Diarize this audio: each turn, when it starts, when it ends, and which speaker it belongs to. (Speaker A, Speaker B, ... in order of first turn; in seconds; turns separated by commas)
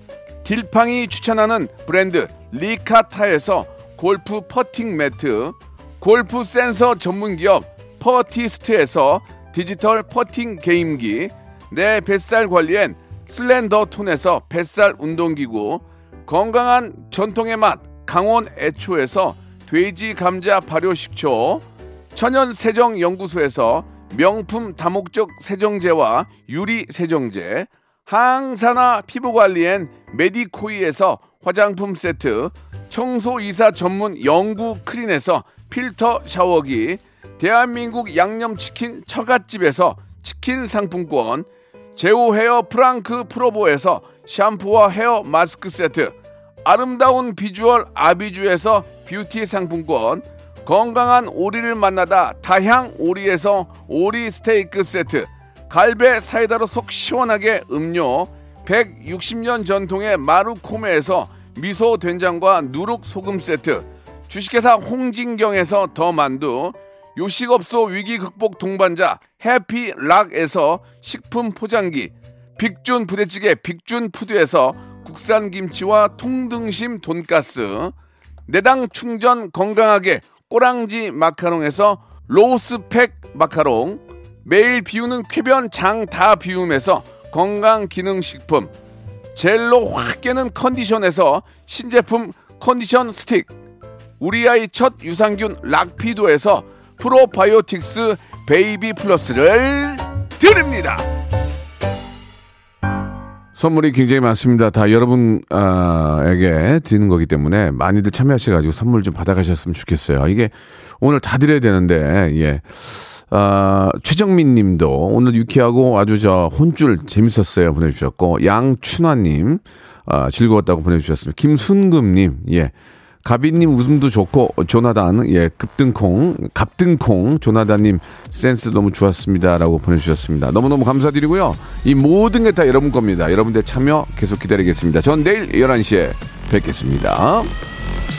Speaker A: 0.4-77.9, Speaker A: 78.5-88.7, Speaker A: 89.3-93.5, Speaker A: 94.2-101.0, Speaker A: 103.5-122.7, Speaker A: 123.2-137.5